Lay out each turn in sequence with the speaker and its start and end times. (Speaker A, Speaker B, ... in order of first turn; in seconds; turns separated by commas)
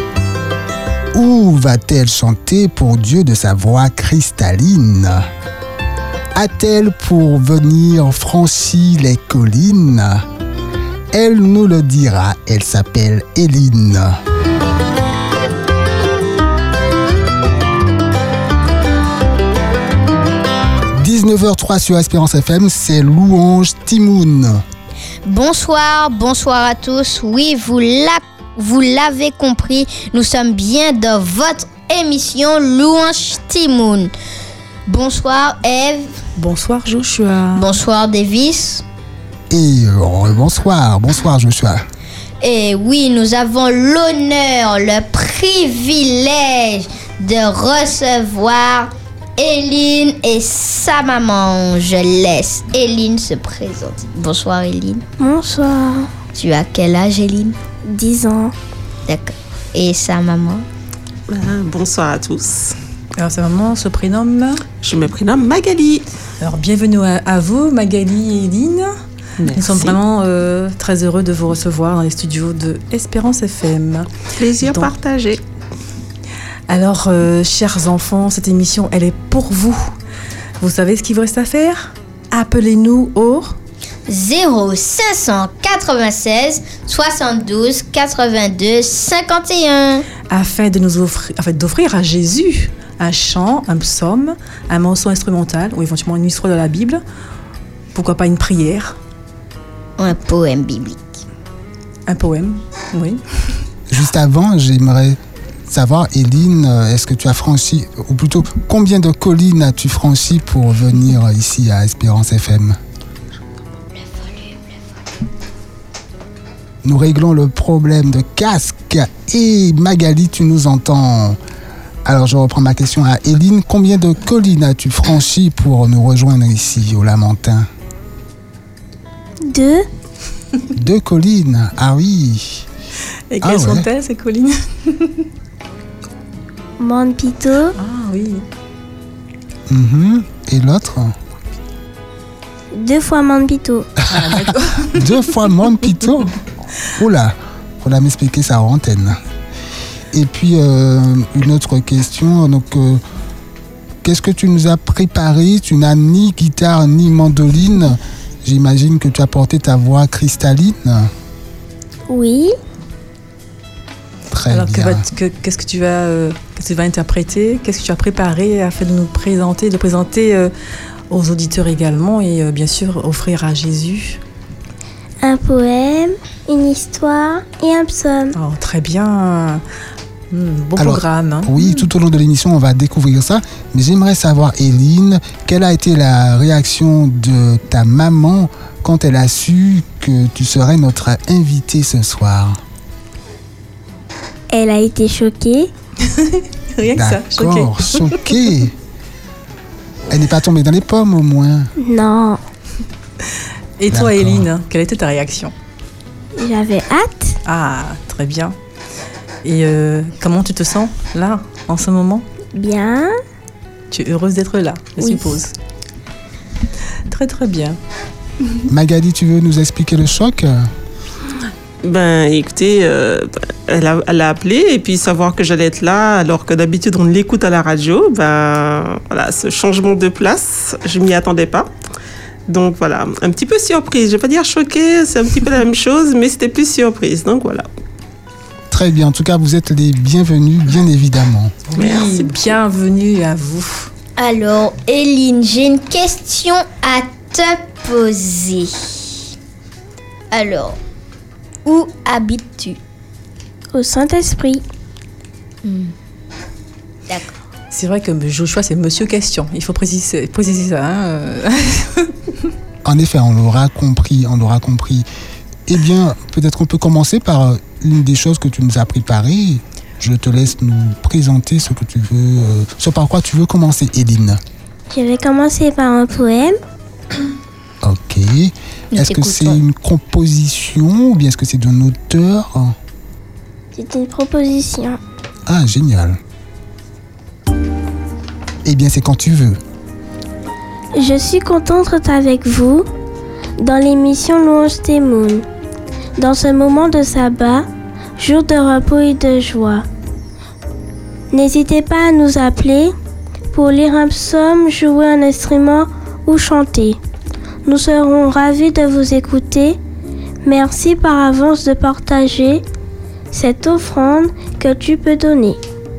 Speaker A: 1.1-5.3, Speaker A: 6.3-10.2, Speaker A: 11.1-14.2, Speaker A: 21.0-24.6, Speaker B: 25.2-34.1, Speaker B: 34.9-36.1, Speaker C: 36.4-37.7, Speaker B: 37.5-38.8, Speaker A: 39.5-41.8, Speaker B: 42.4-55.0, Speaker D: 55.2-56.1, Speaker B: 56.4-57.6, Speaker D: 57.9-58.5, Speaker B: 59.1-60.6, Speaker E: 61.3-62.8, Speaker C: 63.2-64.6, Speaker E: 64.8-66.1, Speaker C: 66.4-68.9, Speaker E: 69.4-70.0, Speaker C: 69.5-75.0, Speaker E: 74.4-75.4, Speaker C: 76.7-80.0, Speaker C: 80.6-83.6, Speaker B: 84.1-90.1, Speaker C: 90.3-97.0, Speaker C: 97.9-99.0, Speaker B: 100.0-101.0, Speaker C: 102.1-103.2, Speaker A: 103.9-112.8, Speaker B: 114.0-114.6, Speaker A: 116.8-121.4, Speaker A: 122.0-127.7, Speaker D: 129.4-129.8, Speaker A: 130.8-132.7, Speaker C: 133.3-135.3, Speaker A: 133.4-133.9, Speaker D: 136.8-137.8, Speaker C: 137.8-138.5, Speaker A: 139.7-141.2, Speaker D: 142.7-143.9, Speaker C: 144.1-145.1, Speaker A: 144.1-146.4, Speaker A: 146.9-149.2, Speaker A: 150.1-153.0, Speaker A: 154.0-161.1, Speaker D: 162.1-162.6, Speaker A: 164.3-165.1, Speaker C: 164.5-170.5, Speaker C: 171.1-174.2, Speaker D: 175.2-178.3, Speaker C: 178.3-179.6, Speaker C: 180.3-181.5, Speaker A: 180.8-192.6, Speaker D: 194.5-195.7, Speaker C: 196.1-198.2, Speaker A: 196.9-198.7, Speaker A: 200.1-201.7, Speaker D: 201.8-202.4, Speaker C: 203.8-205.5, Speaker A: 203.9-204.5, Speaker D: 206.4-207.4, Speaker C: 207.5-208.6, Speaker C: 209.4-212.3, Speaker D: 212.5-213.2, Speaker C: 213.9-215.5, Speaker D: 215.0-215.4, Speaker C: 217.1-217.8, Speaker A: 218.7-220.7, Speaker E: 221.8-231.7, Speaker E: 232.5-237.7, Speaker A: 238.7-241.6, Speaker C: 241.7-243.9, Speaker E: 241.8-242.4, Speaker B: 244.2-249.2, Speaker B: 250.3-250.8, Speaker B: 251.7-252.8, Speaker D: 253.7-254.6, Speaker B: 255.6-255.9, Speaker C: 257.7-262.1, Speaker A: 262.9-265.1, Speaker A: 265.7-274.4, Speaker D: 274.9-276.6, Speaker A: 277.8-282.8, Speaker B: 278.9-279.6, Speaker D: 283.8-285.0, Speaker A: 285.5-286.2, Speaker A: 288.6-289.6, Speaker D: 291.0-292.9, Speaker D: 293.6-295.5, Speaker D: 296.2-297.7, Speaker D: 298.2-299.9, Speaker D: 301.3-302.9, Speaker D: 303.5-307.0, Speaker D: 307.7-309.8, Speaker D: 310.4-312.6, Speaker D: 313.3-315.6